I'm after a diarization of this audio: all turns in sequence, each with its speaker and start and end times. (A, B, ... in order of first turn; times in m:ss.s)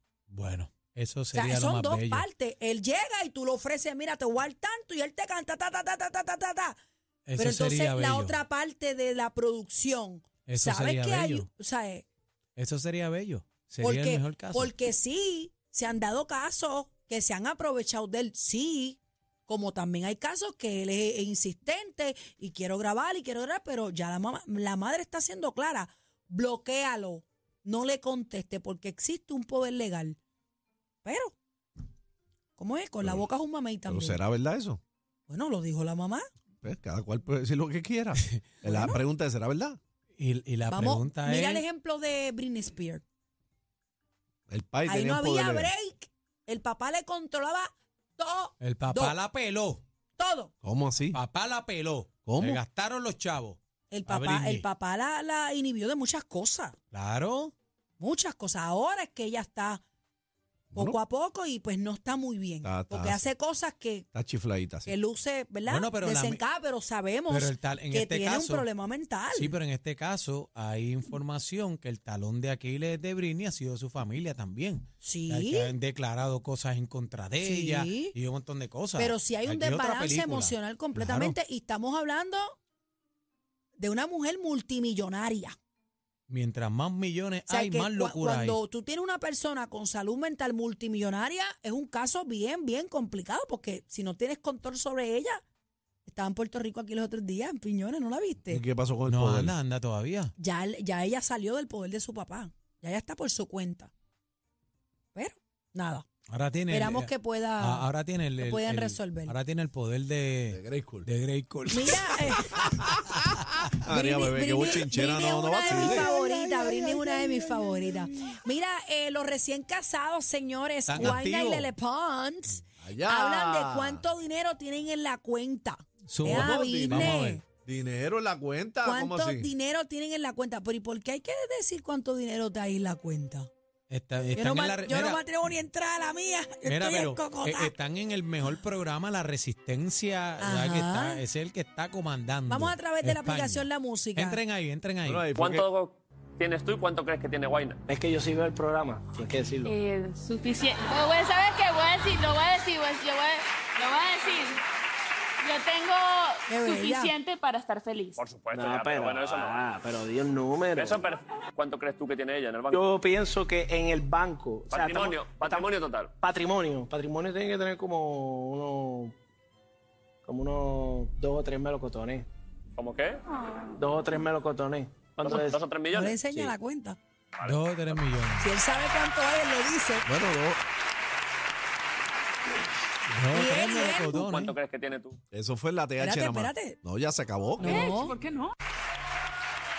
0:00.3-0:02.2 A
0:01.3-0:06.8 B
0:07.3-0:08.4 A
0:07.4-0:12.0 B
0:10.4-0:11.5 A
0:12.6-0:14.8 A
0:13.8-0:30.2 B
0:31.0-0:31.4 B
0:32.6-0:34.2 B
0:33.9-0:34.8 C
0:35.3-0:36.2 B
0:36.6-0:39.8 C
0:38.6-0:39.0 B
0:40.2-0:41.6 A
0:40.6-0:43.0 B
0:44.5-0:45.7 C
0:44.8-0:49.2 B
0:48.6-0:49.8 A
0:50.2-0:50.5 B
0:50.6-0:51.2 C
0:51.1-0:54.7 A
0:52.2-0:52.6 C
0:53.9-0:56.8 B
0:56.9-0:57.5 A
0:58.0-0:59.8 B
1:00.7-1:04.1 B
1:02.6-1:03.3 C
1:04.1-1:04.9 C
1:04.9-1:09.6 B
1:05.7-1:06.4 A
1:07.3-1:08.6 A
1:09.3-1:21.4 A
1:15.0-1:15.7 B
1:17.4-1:18.2 B
1:19.0-1:22.6 B
1:23.8-1:25.6 B
1:26.3-1:28.6 A
1:27.5-1:35.4 B
1:36.0-1:38.6 B
1:38.5-1:39.5 C
1:39.1-1:40.3 A
1:40.4-1:43.9 B
1:45.1-1:46.0 B
1:46.3-1:52.6 A
1:46.7-1:49.3 B
1:50.5-1:51.1 C
1:51.7-1:52.8 B
1:52.6-1:53.1 C
1:53.8-1:56.1 C
1:53.8-2:07.4 B
2:00.9-2:01.7 A
2:02.8-2:04.0 C
2:06.1-2:07.4 A
2:06.2-2:09.5 C
2:08.8-2:13.5 B
2:13.9-2:15.2 A
2:14.3-2:17.7 B
2:16.6-2:25.2 A
2:20.4-2:21.2 B
2:22.5-2:24.4 B
2:25.0-2:25.7 C
2:25.3-2:27.8 D
2:27.9-2:29.8 E
2:29.6-2:34.6 F
2:35.4-2:38.2 F
2:36.5-2:37.2 B
2:38.1-2:39.7 D
2:38.5-2:41.1 E
2:40.7-2:42.8 D
2:42.7-2:45.7 E
2:44.7-2:46.1 D
2:46.2-2:49.1 E
2:50.2-2:52.2 E
2:52.8-2:53.2 D
2:53.7-2:55.6 E
2:55.2-2:56.5 D
2:55.9-2:57.0 B
2:57.4-2:58.5 A
2:58.4-3:00.1 B
3:00.1-3:00.6 C
3:03.1-3:04.5 A
3:03.3-3:04.5 B
3:04.1-3:05.2 D
3:05.3-3:08.1 C
3:06.0-3:06.8 B
3:07.6-3:08.5 F
3:07.6-3:08.2 B